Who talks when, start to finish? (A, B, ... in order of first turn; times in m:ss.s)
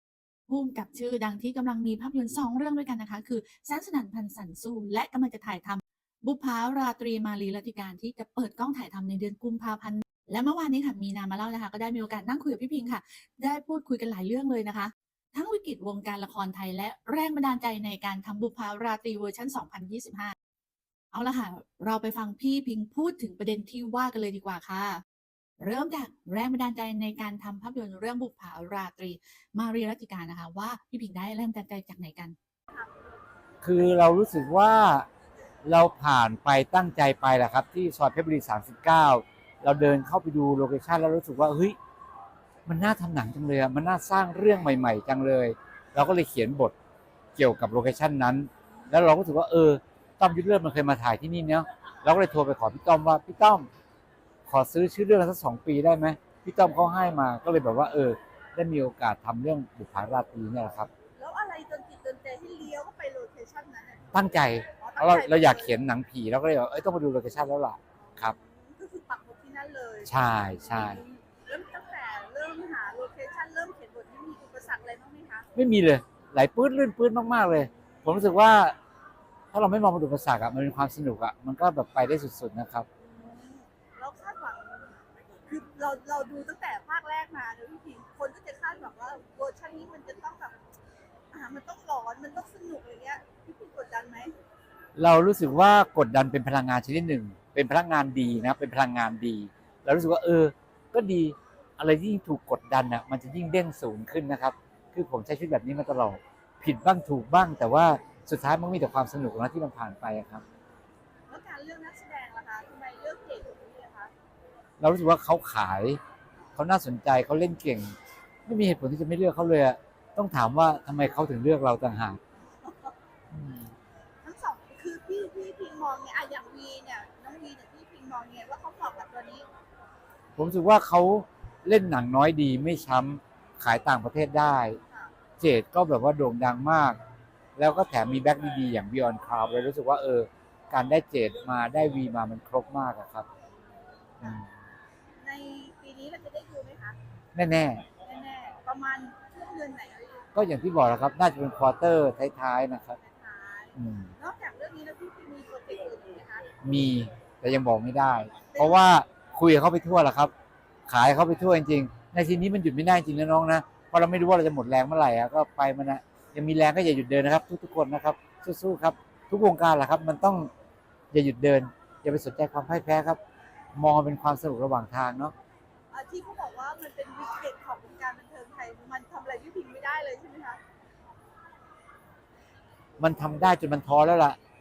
0:00.5-0:20.3 A
0:21.1-0:25.0 A
0:25.6-0:32.4 A
0:32.7-0:33.1 B
0:33.6-0:35.1 C
0:35.6-0:41.8 C
0:42.6-0:46.7 C
0:47.4-0:53.7 C
0:54.5-1:00.9 C
1:01.2-1:05.8 B
1:04.1-1:08.4 C
1:08.0-1:15.5 B
1:10.0-1:11.0 C
1:15.5-1:18.7 C
1:17.9-1:18.3 B
1:19.5-1:22.8 C
1:23.0-1:30.6 B
1:31.3-1:34.3 B
1:35.0-1:50.4 C
1:51.3-1:54.1 B
1:54.8-1:56.0 C
1:56.6-1:57.9 C
1:58.4-2:02.2 C
2:02.6-2:02.9 B
2:03.3-2:03.7 C
2:04.2-2:09.4 B
2:10.4-2:14.8 C
2:15.4-2:17.0 C
2:17.6-2:23.2 C
2:24.2-2:24.4 B
2:24.2-2:24.5 C
2:25.2-2:27.0 B
2:27.3-2:27.8 C
2:28.0-2:30.3 B
2:30.3-2:33.0 C
2:33.0-2:36.5 B
2:33.8-2:34.1 C
2:36.6-2:40.3 C
2:38.5-2:38.8 B
2:40.9-2:50.5 C
2:51.1-2:53.2 C
2:53.7-2:55.3 C
2:55.9-3:00.6 B
3:03.0-3:04.4 C